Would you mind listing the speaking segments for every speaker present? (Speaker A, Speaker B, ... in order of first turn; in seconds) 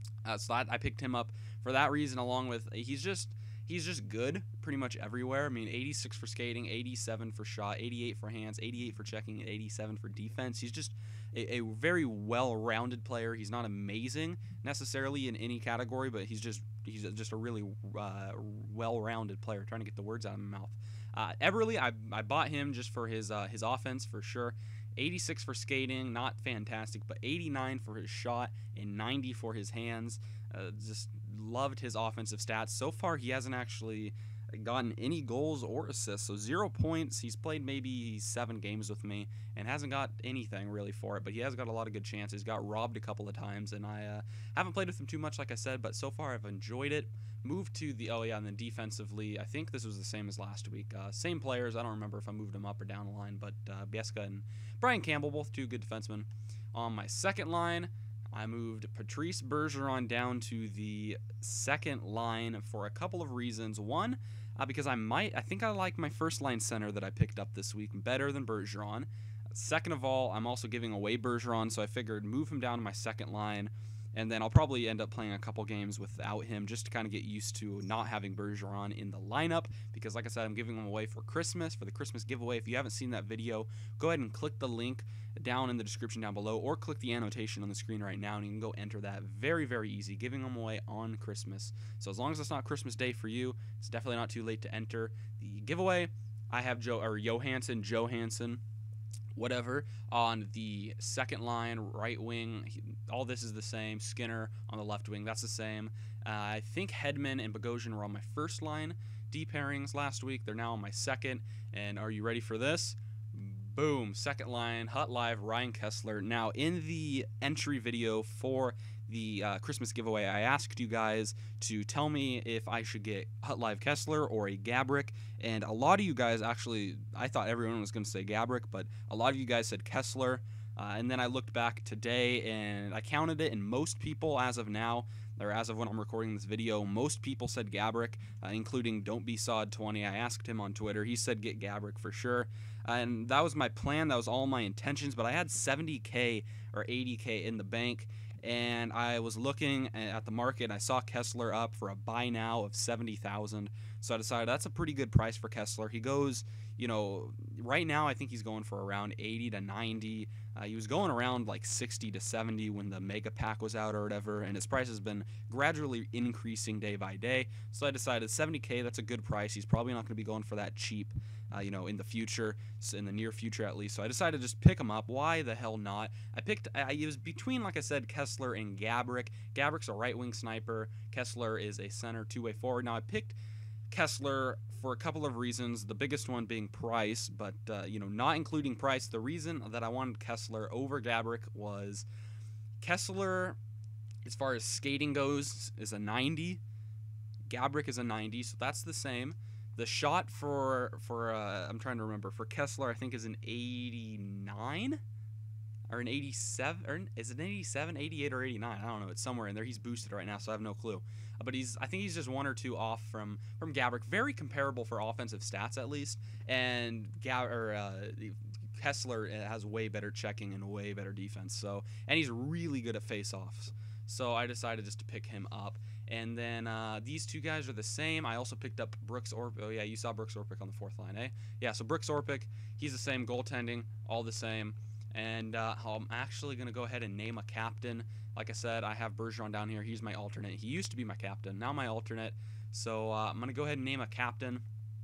Speaker A: 0.2-98.6, 99.3-183.3, 183.9-192.1, 192.8-193.6, 194.2-196.6, 197.5-205.0, 205.9-244.7